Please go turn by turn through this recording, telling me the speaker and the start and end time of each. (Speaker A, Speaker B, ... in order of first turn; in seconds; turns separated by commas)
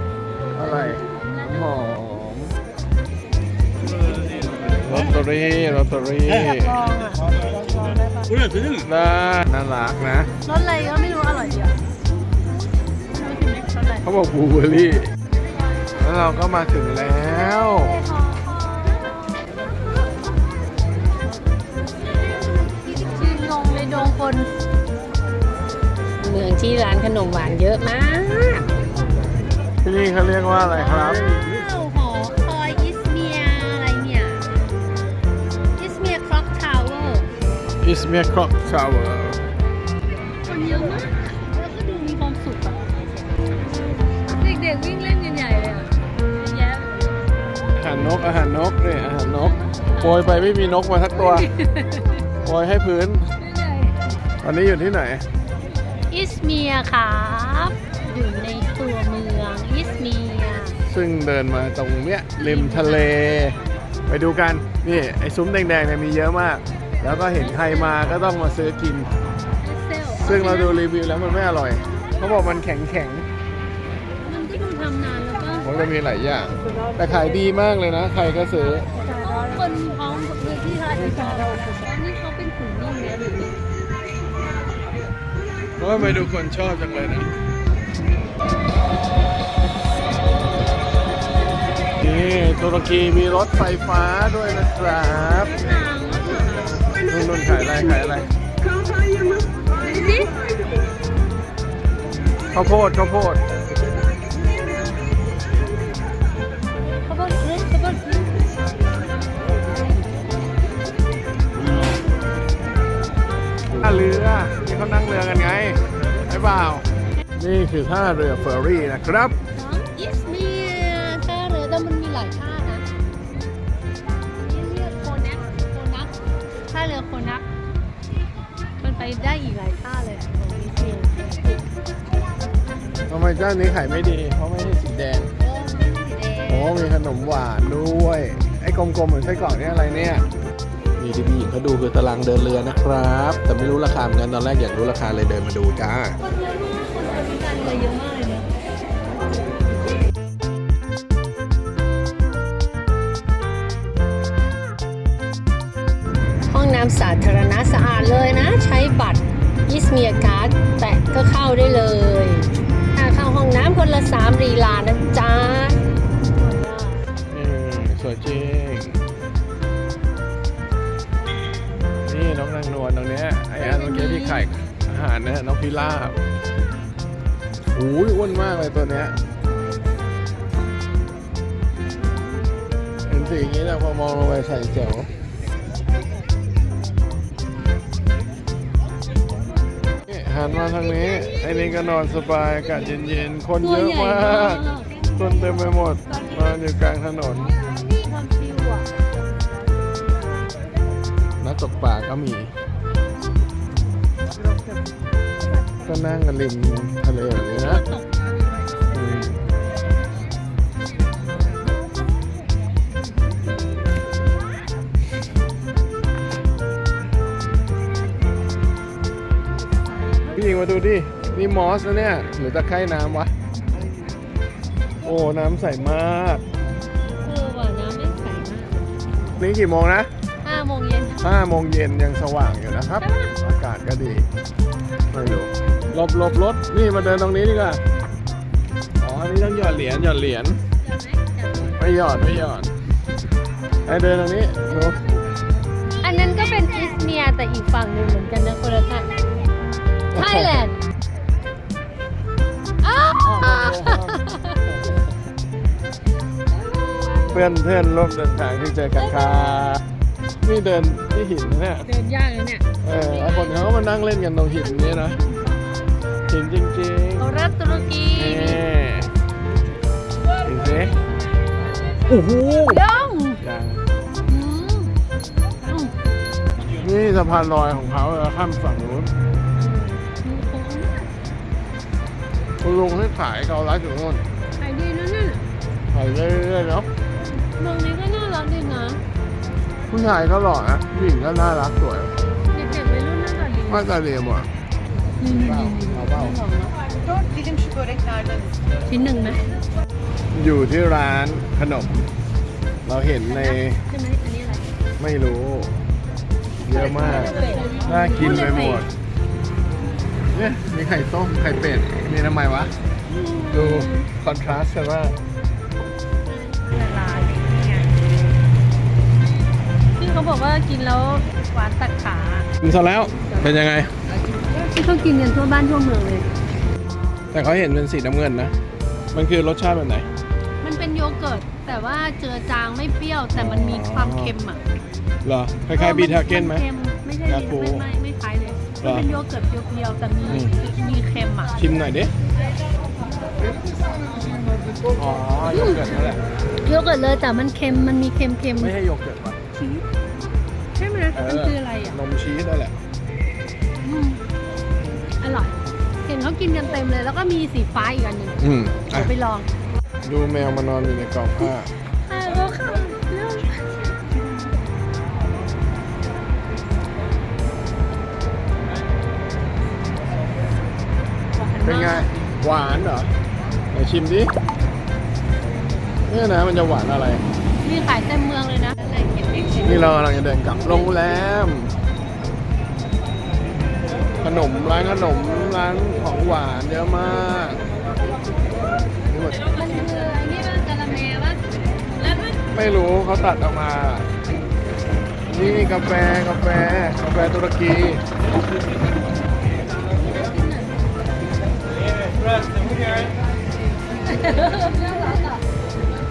Speaker A: 0.5-2.5, Speaker B: 1.2-1.8, Speaker A: 4.8-6.8, Speaker B: 6.3-8.5, Speaker A: 8.6-10.3, Speaker B: 10.4-11.8, Speaker B: 13.1-14.1, Speaker A: 14.0-15.1, Speaker A: 15.9-18.0, Speaker B: 16.8-19.5, Speaker B: 22.0-24.5, Speaker B: 26.2-28.6, Speaker A: 29.8-31.5, Speaker B: 30.6-34.4, Speaker B: 35.8-37.3, Speaker A: 37.8-39.4, Speaker B: 40.4-42.8, Speaker B: 44.3-47.2, Speaker A: 47.8-51.5, Speaker B: 49.5-50.6, Speaker B: 51.1-52.2, Speaker A: 52.4-53.3, Speaker B: 53.4-53.9, Speaker A: 54.4-55.2, Speaker B: 56.1-60.8, Speaker A: 60.9-69.1, Speaker B: 62.4-63.2, Speaker B: 67.3-68.0, Speaker B: 69.6-70.8, Speaker A: 70.1-73.3, Speaker B: 74.2-75.7, Speaker A: 75.6-78.9, Speaker B: 78.9-83.5, Speaker A: 85.8-87.3, Speaker A: 92.0-95.7, Speaker B: 95.4-96.9, Speaker A: 97.1-98.3, Speaker B: 99.8-100.3, Speaker A: 102.5-103.4, Speaker B: 107.0-108.3, Speaker A: 113.7-116.8, Speaker A: 117.4-119.3, Speaker B: 119.5-122.8, Speaker B: 124.3-126.1, Speaker B: 126.7-127.5, Speaker B: 128.8-131.6, Speaker A: 133.1-135.3, Speaker B: 135.4-136.8, Speaker A: 136.5-140.2, Speaker A: 141.0-146.2, Speaker B: 146.2-148.5, Speaker B: 156.5-165.8, Speaker B: 166.4-167.0, Speaker A: 167.3-169.0, Speaker A: 172.0-176.2, Speaker B: 173.6-174.4, Speaker A: 177.7-179.2, Speaker A: 183.1-185.1, Speaker A: 190.1-197.6, Speaker B: 193.6-196.4, Speaker B: 197.6-198.9, Speaker A: 201.4-202.5, Speaker A: 205.8-207.8, Speaker B: 207.5-208.5, Speaker A: 208.9-209.5, Speaker B: 219.8-220.4, Speaker A: 220.3-223.3, Speaker A: 225.0-226.4, Speaker B: 227.2-229.1, Speaker A: 229.4-230.1, Speaker B: 230.4-231.2, Speaker A: 231.2-234.3, Speaker B: 233.0-233.3, Speaker A: 235.1-237.8, Speaker A: 239.0-240.6, Speaker B: 240.8-241.8, Speaker A: 241.6-242.7, Speaker A: 243.8-245.0, Speaker B: 244.8-245.1, Speaker B: 246.0-249.2, Speaker A: 250.1-250.7, Speaker B: 250.1-250.8, Speaker B: 252.8-254.6, Speaker A: 253.1-255.1, Speaker B: 256.5-257.4, Speaker A: 257.3-259.8, Speaker B: 258.9-259.6, Speaker A: 260.4-261.9, Speaker B: 261.9-263.6, Speaker A: 262.8-265.2, Speaker A: 266.3-267.3, Speaker B: 267.2-268.6, Speaker A: 268.1-269.1, Speaker A: 270.4-270.9, Speaker A: 272.1-272.8, Speaker B: 272.7-273.4, Speaker A: 273.4-273.8, Speaker B: 274.3-274.9, Speaker B: 275.6-275.9, Speaker A: 276.8-279.1, Speaker B: 279.6-281.1, Speaker A: 282.6-284.2, Speaker B: 284.6-285.4, Speaker A: 285.9-286.9, Speaker B: 287.4-289.0, Speaker A: 289.9-292.1, Speaker B: 292.5-294.0, Speaker A: 293.7-294.5, Speaker B: 295.2-297.3, Speaker A: 295.2-296.4, Speaker B: 298.8-299.4, Speaker A: 300.3-302.1, Speaker A: 302.8-303.8, Speaker B: 303.2-304.7, Speaker A: 305.0-305.8, Speaker A: 306.6-308.9, Speaker B: 306.7-308.8, Speaker A: 310.3-312.7, Speaker B: 313.1-314.1, Speaker A: 313.5-315.1, Speaker B: 316.2-318.0, Speaker B: 319.9-322.5, Speaker A: 322.6-323.9, Speaker B: 324.1-326.3, Speaker A: 327.3-328.5, Speaker A: 329.1-330.1, Speaker B: 330.6-334.6, Speaker A: 333.3-334.3, Speaker A: 335.2-336.6, Speaker B: 335.7-341.6, Speaker A: 337.2-337.9, Speaker A: 338.8-339.1, Speaker A: 340.3-340.5, Speaker A: 341.6-342.1, Speaker A: 344.9-346.3, Speaker B: 345.4-348.7, Speaker A: 348.6-349.4, Speaker B: 349.5-349.8, Speaker B: 350.7-352.0, Speaker A: 351.1-352.8, Speaker B: 353.8-354.2, Speaker B: 355.2-359.5, Speaker A: 358.4-359.1, Speaker A: 360.0-361.7, Speaker B: 362.0-363.7, Speaker B: 371.3-372.1, Speaker A: 371.6-373.1, Speaker A: 373.7-374.3, Speaker A: 376.1-377.2, Speaker B: 377.6-380.0, Speaker A: 379.6-381.7, Speaker A: 384.2-387.6, Speaker A: 389.0-389.5, Speaker B: 389.4-391.4, Speaker B: 391.9-392.4, Speaker A: 392.5-394.1, Speaker A: 395.3-398.0, Speaker B: 395.4-396.0, Speaker B: 399.9-400.9, Speaker B: 402.3-403.1, Speaker B: 403.9-405.4